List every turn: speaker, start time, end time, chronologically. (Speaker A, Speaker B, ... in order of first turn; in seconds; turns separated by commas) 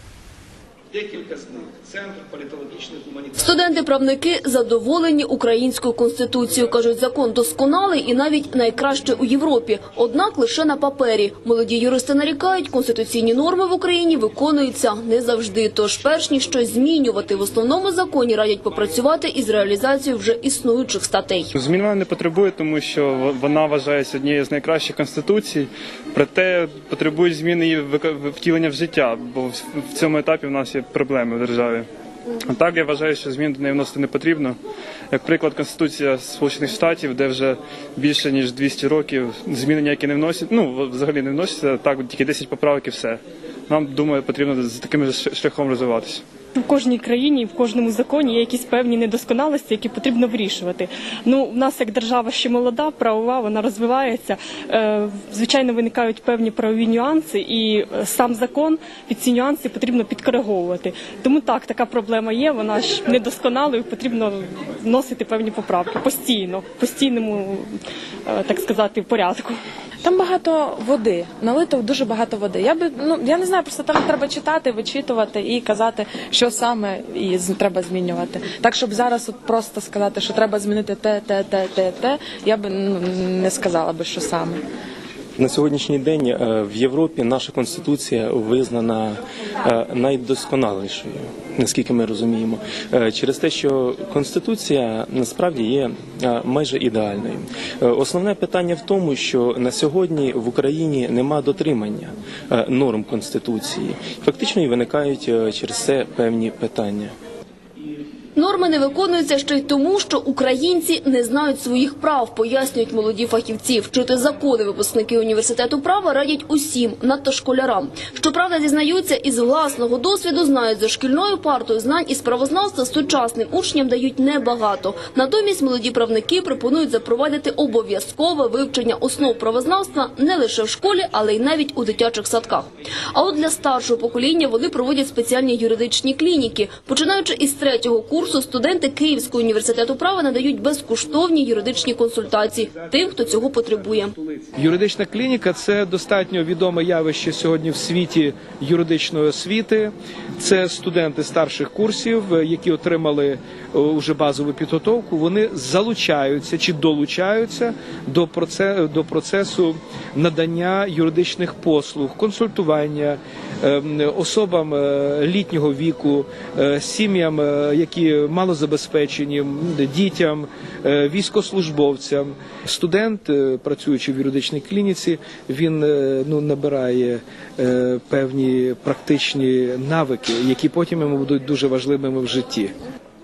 Speaker A: 0.9-3.5, Speaker B: 3.4-21.5, Speaker C: 21.6-25.5, Speaker C: 26.1-27.7, Speaker C: 28.3-29.1, Speaker C: 30.0-31.4, Speaker C: 32.5-34.3, Speaker C: 35.1-37.4, Speaker C: 38.0-43.0, Speaker C: 43.7-46.1, Speaker D: 46.5-67.7, Speaker D: 68.3-69.6, Speaker E: 71.3-72.7, Speaker E: 73.3-73.9, Speaker E: 74.6-76.6, Speaker E: 77.4-82.1, Speaker F: 85.4-107.1, Speaker B: 108.3-144.2, Speaker A: 144.5-182.7